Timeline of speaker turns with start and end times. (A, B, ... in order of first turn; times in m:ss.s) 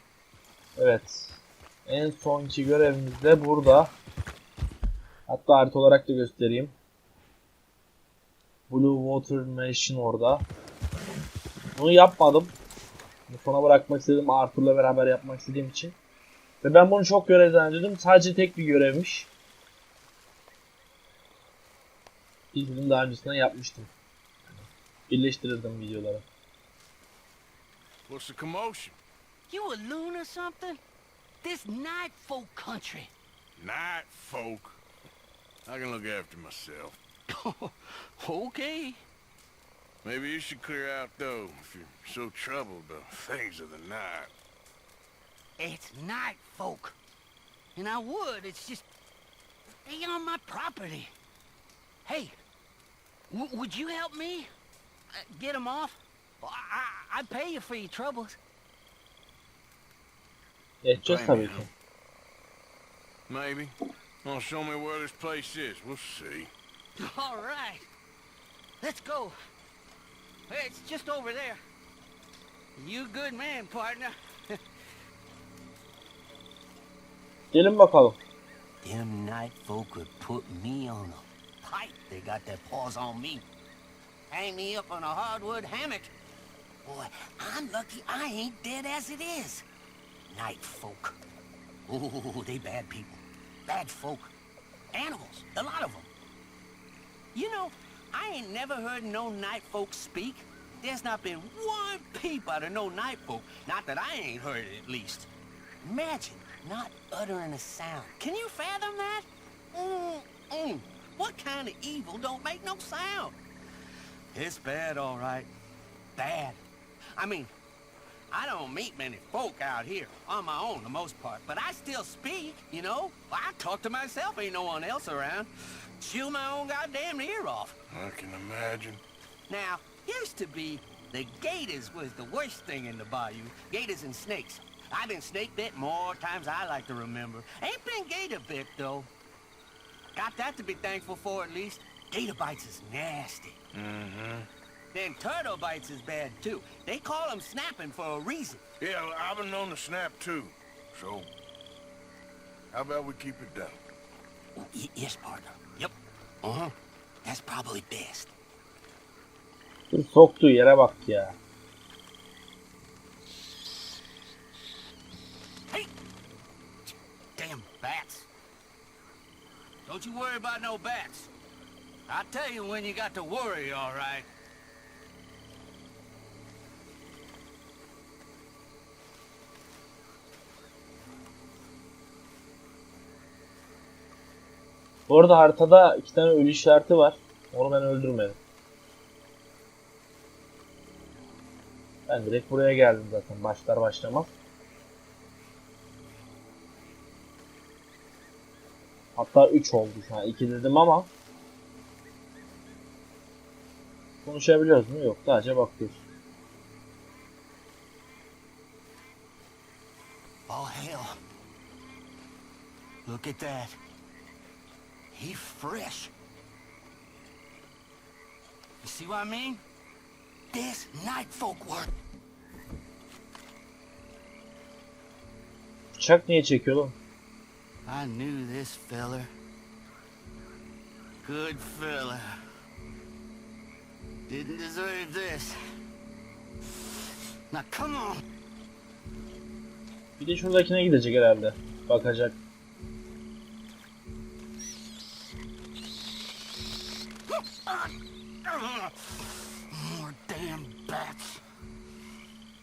0:00.8-0:03.9 A
0:05.3-0:06.7 A
0:08.7-0:10.4 A
0:11.8-0:12.5 A
0:13.3-0:16.0 A
0:16.6-0:19.3 A
0:22.5-0:23.9 A
0:24.5-0:26.2 A
0:28.1-0:29.0 B
0:29.5-0:30.8 C
0:31.4-0:33.1 C
0:33.6-0:34.8 B
0:35.6-0:37.0 B
0:37.3-0:39.0 C
0:40.0-0:44.3 B
0:45.6-0:47.0 C
0:47.7-0:48.8 C
0:49.8-0:51.1 C
0:52.0-0:52.3 C
0:53.3-0:54.5 C
0:55.1-0:58.4 C
1:00.8-1:01.7 A
1:01.0-1:01.7 B
1:03.3-1:06.5 B
1:07.0-1:07.9 C
1:08.8-1:09.4 C
1:10.5-1:11.6 C
1:12.8-1:14.6 C
1:17.5-1:18.2 A
1:18.8-1:23.4 C
1:24.3-1:26.1 C
1:26.8-1:29.6 C
1:30.3-1:31.2 C
1:31.9-1:34.3 C
1:34.9-1:36.1 C
1:37.3-1:45.3 C
1:45.8-1:53.4 C
1:54.3-1:55.5 C
1:56.2-1:56.6 C
1:57.2-1:57.5 C
1:58.3-2:07.8 C
2:07.9-2:09.0 B
2:09.5-2:19.1 C
2:20.1-2:23.6 C
2:23.7-2:24.5 B
2:24.9-2:28.6 C
2:28.8-2:31.3 B
2:32.7-2:33.8 B
2:34.6-2:36.7 C
2:37.2-2:38.3 C
2:39.9-2:41.4 A
2:47.4-2:48.3 C
2:49.8-2:51.3 C
2:52.1-2:54.3 C
3:05.1-3:08.4 A
3:12.1-3:14.3 A
3:19.2-3:21.1 A
3:24.2-3:26.0 A
3:30.5-3:31.2 C
3:33.0-3:33.8 C
3:35.1-3:36.1 C
3:38.8-3:39.6 C
3:40.5-3:41.9 C
3:45.9-3:46.9 A
3:47.8-3:49.3 C
3:51.2-3:52.3 C
3:54.3-3:55.6 C
3:57.5-3:58.2 C
4:00.2-4:02.4 A
4:07.3-4:11.4 C